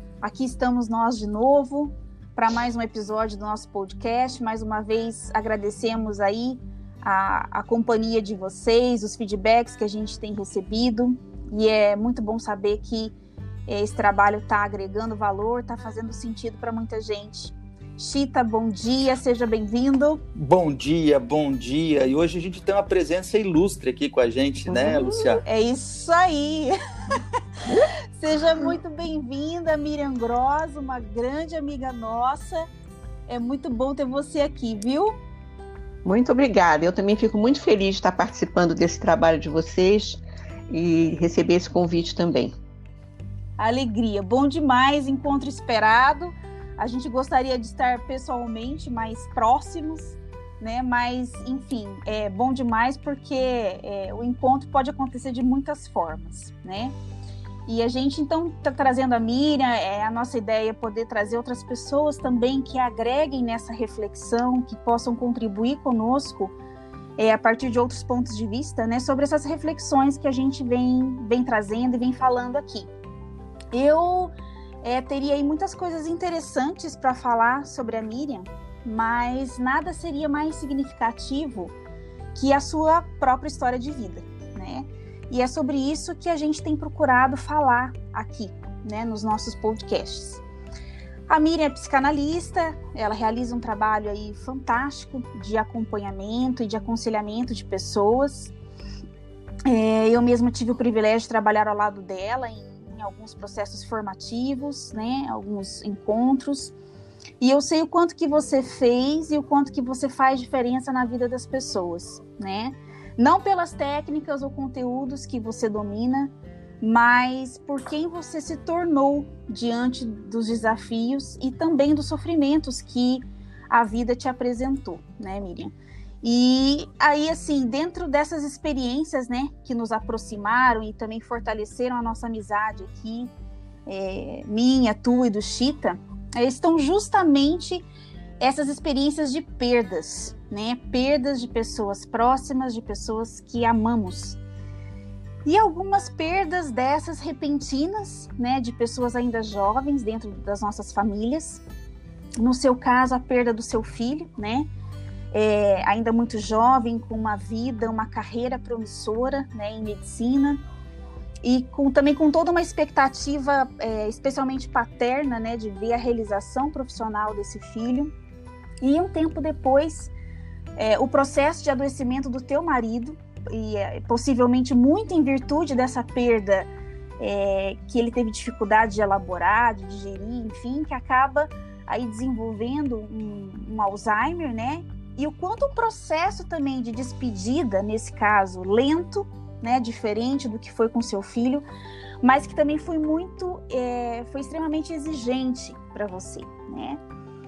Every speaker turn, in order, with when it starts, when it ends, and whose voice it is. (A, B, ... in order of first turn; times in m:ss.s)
0:00.2-0:13.1 A
0:13.7-0:20.2 A
0:20.4-0:25.4 B
0:24.7-0:25.4 C
0:25.4-0:26.8 A
0:27.7-0:27.9 C
0:28.1-0:32.6 A
0:33.3-0:35.2 A
0:36.0-0:42.6 C
0:43.6-0:57.0 A
0:57.7-1:06.5 A
1:07.2-1:12.9 A
1:13.7-1:21.7 A
1:22.4-1:30.4 A
1:31.3-1:38.5 A
1:39.7-1:46.7 A
1:47.4-2:13.3 A
2:13.9-2:17.8 A
2:18.4-2:24.4 A
2:25.4-2:31.6 A
2:32.4-2:34.7 A
2:35.3-2:40.6 A
2:41.4-2:48.1 A
2:48.8-2:50.1 A
2:50.8-3:11.6 A
3:12.2-3:17.0 A